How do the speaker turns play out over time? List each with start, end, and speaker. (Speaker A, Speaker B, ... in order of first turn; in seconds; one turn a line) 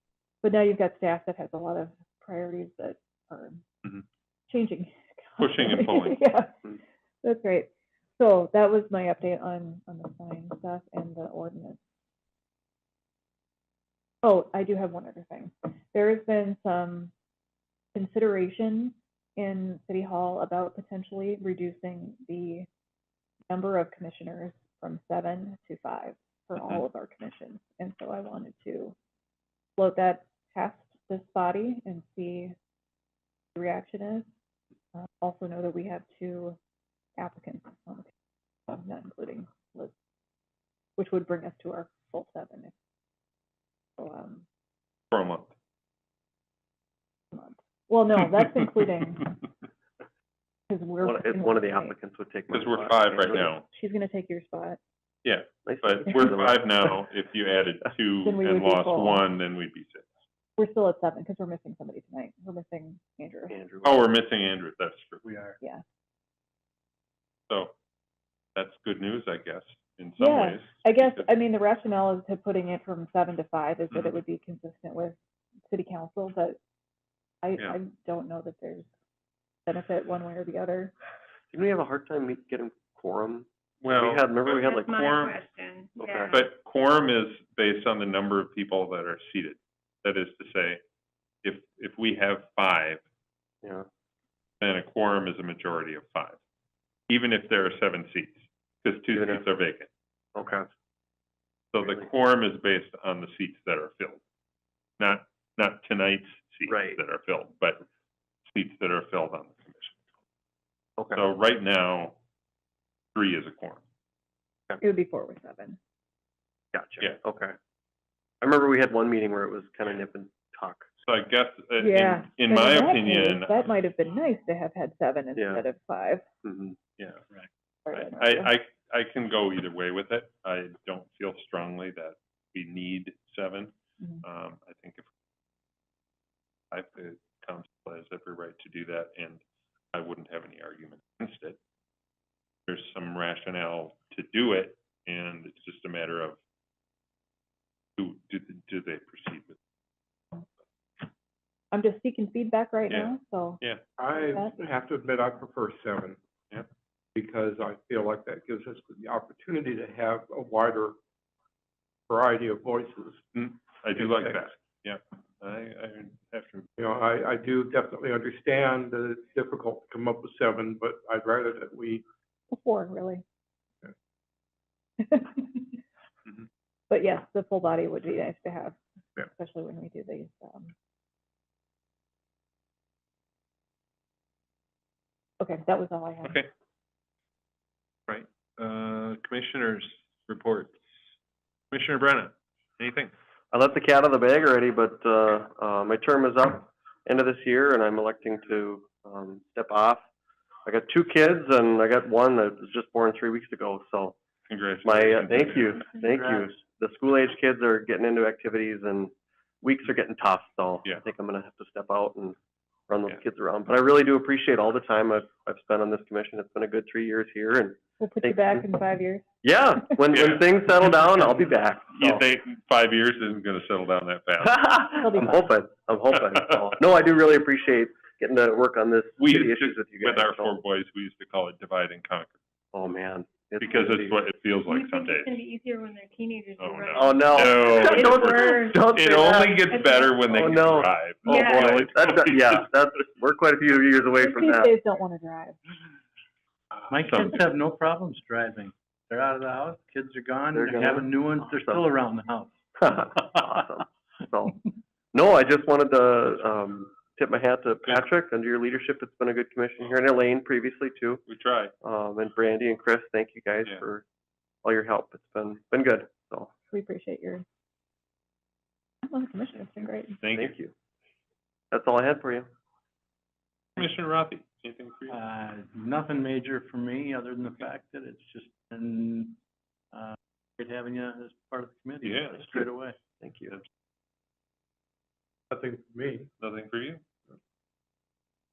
Speaker A: 0.4-3.6
Speaker A: 4.5-6.7
Speaker B: 5.4-6.3
Speaker A: 7.2-11.8
Speaker A: 14.2-17.1
Speaker A: 17.9-22.7
Speaker A: 23.5-29.0
Speaker A: 29.8-32.5
Speaker A: 33.5-34.3
Speaker A: 35.0-36.6
Speaker A: 37.2-38.1
Speaker A: 38.7-39.9
Speaker A: 41.0-42.7
Speaker A: 44.0-44.5
Speaker B: 45.1-45.5
Speaker A: 47.3-49.4
Speaker A: 50.7-52.0
Speaker C: 51.0-53.5
Speaker B: 52.5-53.6
Speaker A: 53.4-54.8
Speaker B: 55.2-60.1
Speaker C: 55.6-56.8
Speaker A: 58.2-59.3
Speaker A: 60.6-63.5
Speaker C: 63.5-64.1
Speaker B: 63.8-65.2
Speaker D: 65.2-65.6
Speaker B: 68.5-71.3
Speaker A: 70.2-75.2
Speaker A: 75.7-76.6
Speaker A: 77.4-78.9
Speaker A: 79.7-80.9
Speaker C: 81.5-85.0
Speaker B: 83.8-85.4
Speaker E: 84.7-86.4
Speaker C: 86.0-86.3
Speaker B: 86.3-90.8
Speaker B: 91.4-93.0
Speaker B: 94.6-96.4
Speaker B: 97.1-99.9
Speaker C: 99.1-99.4
Speaker C: 100.3-100.7
Speaker B: 101.7-104.2
Speaker C: 101.8-102.1
Speaker B: 105.0-107.8
Speaker C: 106.7-107.0
Speaker B: 108.5-110.0
Speaker B: 111.1-112.2
Speaker B: 113.2-113.8
Speaker A: 114.8-115.8
Speaker C: 116.7-117.6
Speaker C: 118.4-120.9
Speaker B: 121.0-123.7
Speaker A: 121.8-126.2
Speaker C: 125.4-125.6
Speaker C: 126.4-126.8
Speaker B: 127.0-127.2
Speaker A: 127.9-128.5
Speaker B: 127.9-135.1
Speaker B: 136.7-139.4
Speaker B: 139.9-141.6
Speaker B: 142.7-146.4
Speaker B: 148.0-149.6
Speaker A: 151.7-153.6
Speaker B: 152.9-153.8
Speaker F: 154.0-156.2
Speaker A: 154.2-154.6
Speaker F: 157.2-161.0
Speaker F: 162.1-163.2
Speaker B: 163.3-166.7
Speaker F: 163.9-164.5
Speaker F: 166.8-172.1
Speaker A: 172.5-173.2
Speaker A: 175.0-175.8
Speaker A: 176.9-180.7
Speaker A: 185.4-186.4
Speaker B: 188.1-190.8
Speaker B: 191.7-193.1
Speaker C: 193.5-200.0
Speaker C: 200.7-204.2
Speaker B: 204.5-205.8
Speaker C: 204.8-212.4
Speaker D: 206.0-206.5
Speaker C: 212.9-218.7
Speaker A: 218.0-219.2
Speaker C: 219.4-222.3
Speaker B: 220.1-221.1
Speaker B: 222.0-225.0
Speaker C: 224.4-230.6
Speaker A: 225.0-225.5
Speaker B: 229.2-232.3
Speaker C: 232.7-234.2
Speaker B: 233.6-235.3
Speaker E: 234.7-238.9
Speaker B: 236.6-242.6
Speaker C: 236.9-239.7
Speaker E: 239.7-240.6
Speaker C: 240.3-244.7
Speaker E: 241.3-241.8
Speaker A: 244.2-245.6
Speaker D: 246.9-253.2
Speaker B: 247.0-247.3
Speaker C: 250.6-251.1
Speaker C: 252.8-261.2
Speaker B: 261.3-261.7
Speaker C: 261.8-264.1
Speaker C: 264.6-266.5
Speaker A: 266.7-267.4
Speaker A: 269.0-270.2
Speaker B: 270.2-270.5
Speaker C: 270.3-270.7
Speaker C: 271.7-272.5
Speaker B: 273.8-275.2
Speaker D: 275.1-279.4
Speaker D: 279.9-283.0
Speaker B: 282.0-282.6
Speaker C: 282.4-282.6
Speaker C: 283.2-283.6
Speaker F: 285.5-286.3
Speaker B: 286.4-287.0